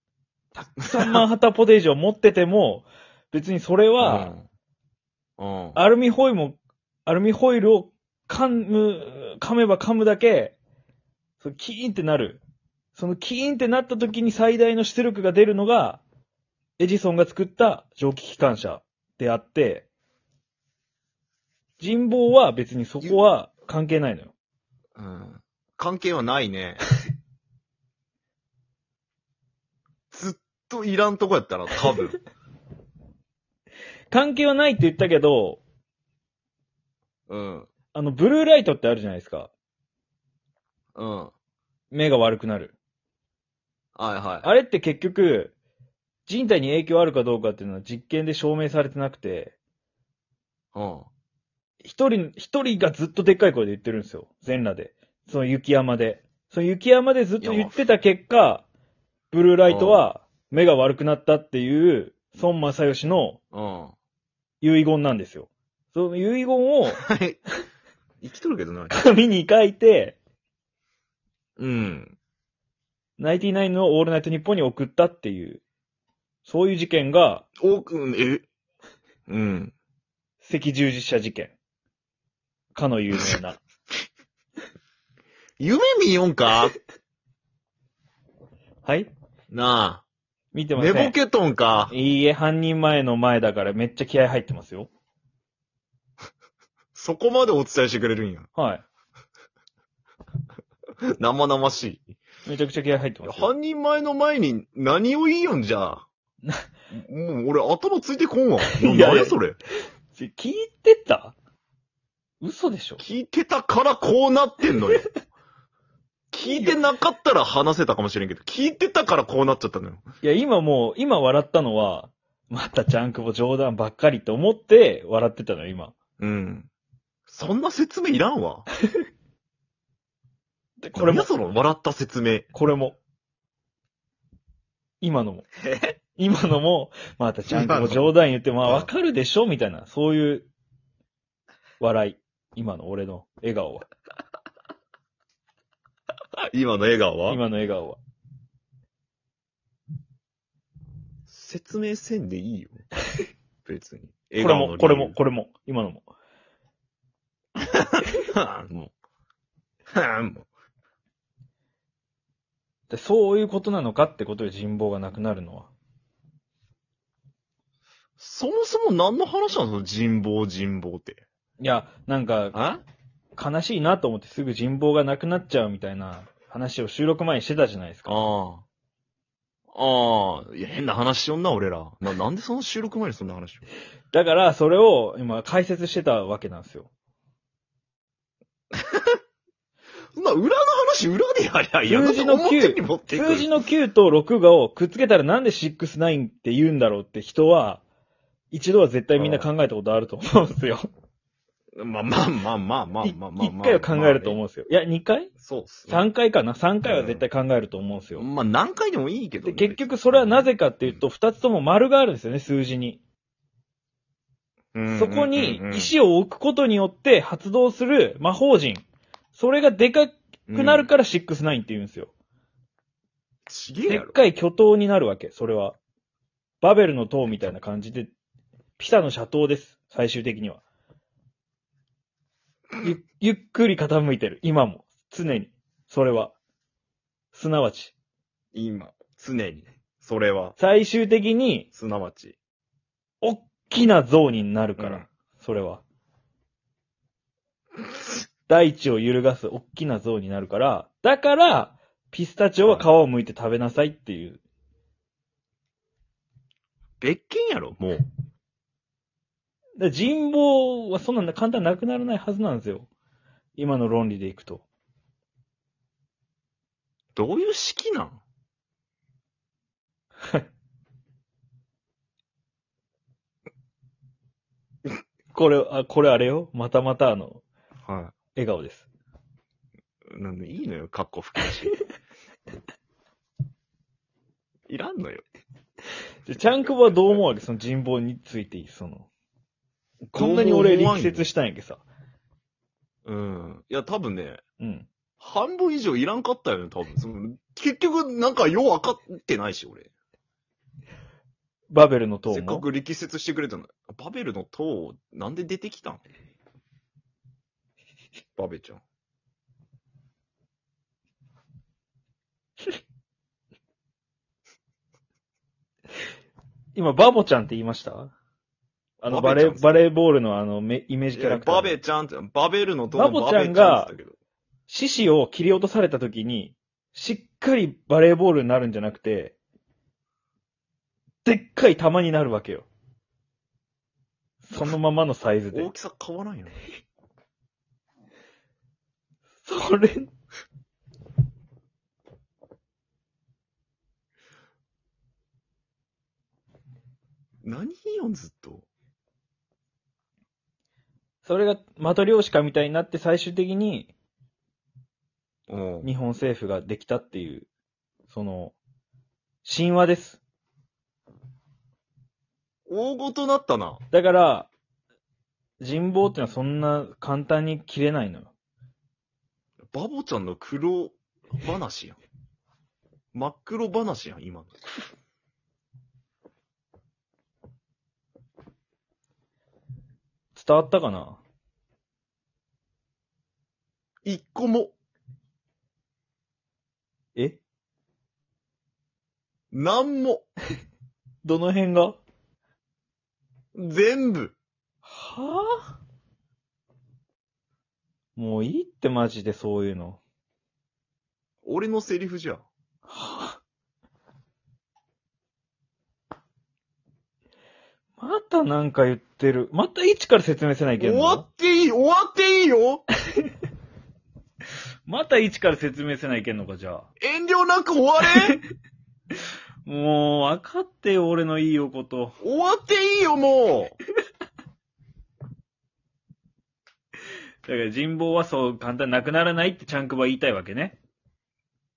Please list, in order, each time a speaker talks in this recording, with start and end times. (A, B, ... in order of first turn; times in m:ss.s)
0:00.5-0:04.3 A
0:00.8-0:01.2 B
0:04.0-0:04.4 B
0:05.4-0:05.8 B
0:05.7-0:10.6 A
0:11.4-0:12.4 A
0:12.9-0:16.0 A
0:16.8-0:19.9 A
0:21.8-0:24.3 A
0:25.0-0:26.8 B
0:30.1-0:32.2 B
0:34.1-0:35.6 A
0:37.3-0:37.7 B
0:37.9-0:39.5 A
0:40.9-0:41.3 B
0:41.9-0:42.7 A
0:44.0-0:44.5 B
0:44.4-0:45.5 A
0:46.3-0:49.5 A
0:50.7-0:51.1 B
0:51.8-0:58.6 A
0:57.4-0:57.8 B
0:59.3-1:03.4 A
0:59.7-1:00.0 B
1:03.5-1:04.0 B
1:04.6-1:07.0 A
1:06.9-1:07.4 B
1:08.2-1:08.9 B
1:08.9-1:10.2 A
1:11.6-1:12.2 B
1:13.2-1:15.6 A
1:16.4-1:17.4 A
1:17.6-1:18.4 B
1:19.3-1:19.7 B
1:20.4-1:21.5 A
1:22.7-1:23.6 A
1:25.6-1:26.7 B
1:28.8-1:29.1 A
1:29.5-1:30.0 B
1:30.5-1:31.1 A
1:30.8-1:31.9 B
1:31.9-1:34.9 A
1:36.9-1:38.5 B
1:38.5-1:38.8 A
1:41.2-1:42.2 B
1:42.4-1:43.5 A
1:43.2-1:46.1 B
1:46.9-1:49.6 B
1:48.7-1:49.4 A
1:50.1-1:51.3 A
1:52.4-1:53.0 A
1:53.0-1:55.1 B
1:56.3-2:00.0 B
1:56.4-1:56.8 A
2:00.2-2:05.9 A
2:06.2-2:06.7 B
2:07.3-2:08.6 B
2:10.8-2:11.3 A
2:10.9-2:12.5 B
2:12.5-2:13.0 A
2:15.0-2:15.5 A
2:15.6-2:15.9 B
2:16.1-2:20.5 A
2:17.5-2:18.0 B
2:18.6-2:18.9 B
2:21.8-2:23.8 A
2:26.5-2:27.4 B
2:27.3-2:28.0 A
2:31.3-2:32.8 B
2:33.6-2:35.1 B
2:34.4-2:36.0 A
2:37.7-2:38.9 B
2:39.9-2:40.5 B
2:42.9-2:45.7 A
2:48.2-2:51.2 B
2:51.6-2:52.6 A
2:52.5-2:52.8 B
2:53.4-2:58.2 A
2:58.0-2:58.6 B
2:59.7-3:03.6 B
3:04.1-3:06.9 A
3:08.8-3:09.2 B
3:10.1-3:13.5 B
3:11.8-3:17.8 A
3:18.5-3:20.8 A
3:19.2-3:19.5 B
3:21.8-3:24.4 B
3:23.0-3:25.3 A
3:25.4-3:26.0 B
3:25.9-3:28.2 A
3:26.8-3:27.2 B
3:28.2-3:31.0 B
3:29.4-3:33.0 A
3:34.7-3:35.9 B
3:34.9-3:38.8 A
3:39.3-3:42.1 A
3:40.5-3:40.9 B
3:43.5-3:44.2 B
3:43.9-3:45.8 A
3:46.6-3:48.1 A
3:48.8-3:50.6 A
3:52.8-3:56.3 A
3:57.3-3:57.9 A
3:58.5-4:00.6 B
4:00.6-4:01.7 A
4:01.7-4:02.4 B
4:03.2-4:05.8 A
4:04.8-4:05.1 B
4:08.5-4:14.4 A
4:12.6-4:12.9 B
4:17.0-4:18.0 B
4:19.8-4:22.9 A
4:23.6-4:24.6 A
4:27.1-4:28.2 B
4:35.3-4:37.4 A
4:37.8-4:38.1 B
4:38.3-4:38.9 A
4:40.1-4:41.7 B
4:44.7-4:45.2 B
4:46.2-4:49.1 A
4:50.1-4:51.2 B
4:50.1-4:51.8 A
4:53.0-4:54.4 B
4:54.6-4:54.9 A
4:55.2-4:59.9 B
5:01.7-5:02.6 A
5:02.3-5:06.0 B
5:08.4-5:08.8 B
5:16.7-5:18.1 A
5:19.0-5:21.8 A
5:19.1-5:19.8 B
5:21.1-5:24.1 B
5:22.9-5:23.9 A
5:24.7-5:29.3 A
5:31.2-5:32.7 A
5:34.4-5:35.7 A
5:35.5-5:36.6 B
5:39.4-5:40.1 A
5:47.4-5:48.7 B
5:51.2-5:53.9 A
5:55.5-5:55.9 B
5:55.8-5:57.5 A
5:58.1-5:58.5 A
5:59.4-6:00.2 A
6:02.7-6:03.8 B
6:03.9-6:04.5 A
6:05.6-6:08.3 A
6:09.7-6:12.0 B
6:13.1-6:14.5 B
6:20.3-6:21.2 A
6:24.0-6:24.7 B
6:29.5-6:30.3 B
6:31.2-6:32.0 A
6:33.5-6:34.4 B
6:34.8-6:35.8 A
6:38.2-6:40.0 A
6:41.4-6:42.4 B
6:42.9-6:43.4 A
6:48.0-6:51.3 A
6:50.8-6:52.8 B
6:54.9-6:56.9 A
6:57.0-6:58.4 B
6:58.1-6:58.4 A
6:59.6-7:02.2 A
7:02.2-7:03.8 B
7:07.4-7:10.8 A